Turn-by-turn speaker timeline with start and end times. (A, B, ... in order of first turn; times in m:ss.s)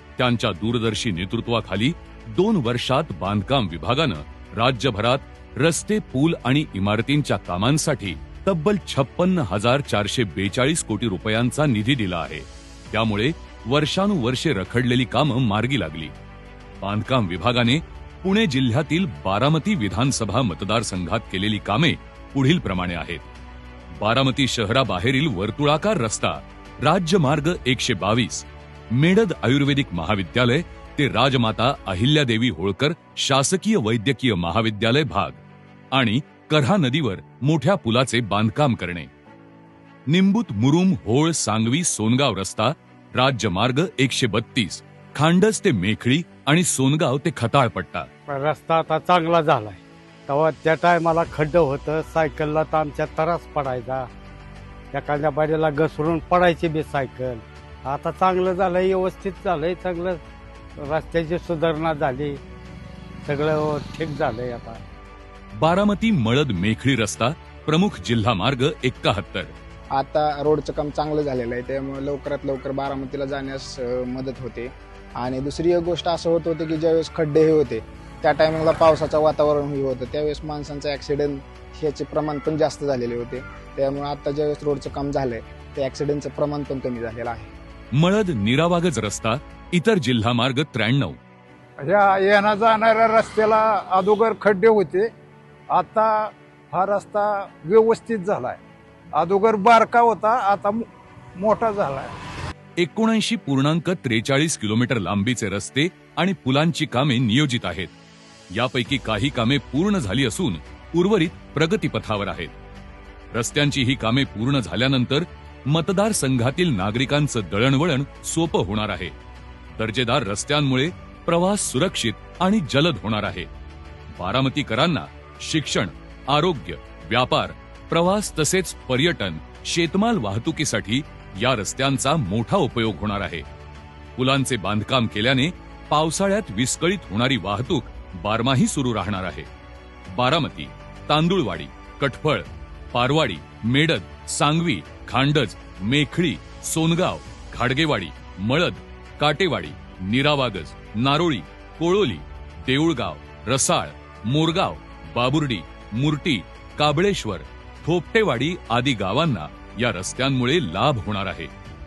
0:00.2-0:16.1 A
0:16.8-0:23.2 A
0:24.0-0:35.4 A
0:35.9-0:39.1 A
0:40.1-0:48.1 A
0:48.3-0:54.1 B
0:54.9-1:00.2 B
1:00.8-1:02.4 B
1:03.2-1:04.8 B
1:05.6-1:09.5 A
1:09.9-1:27.5 C
1:28.0-1:31.2 A
1:31.8-1:35.1 D
1:35.7-1:38.6 D
1:39.2-1:42.1 D
1:42.8-1:47.9 A
1:48.6-1:52.5 A
1:53.3-1:59.2 A
1:59.8-2:03.5 A
2:04.1-2:13.4 A
2:14.2-2:19.5 A
2:20.2-2:41.5 A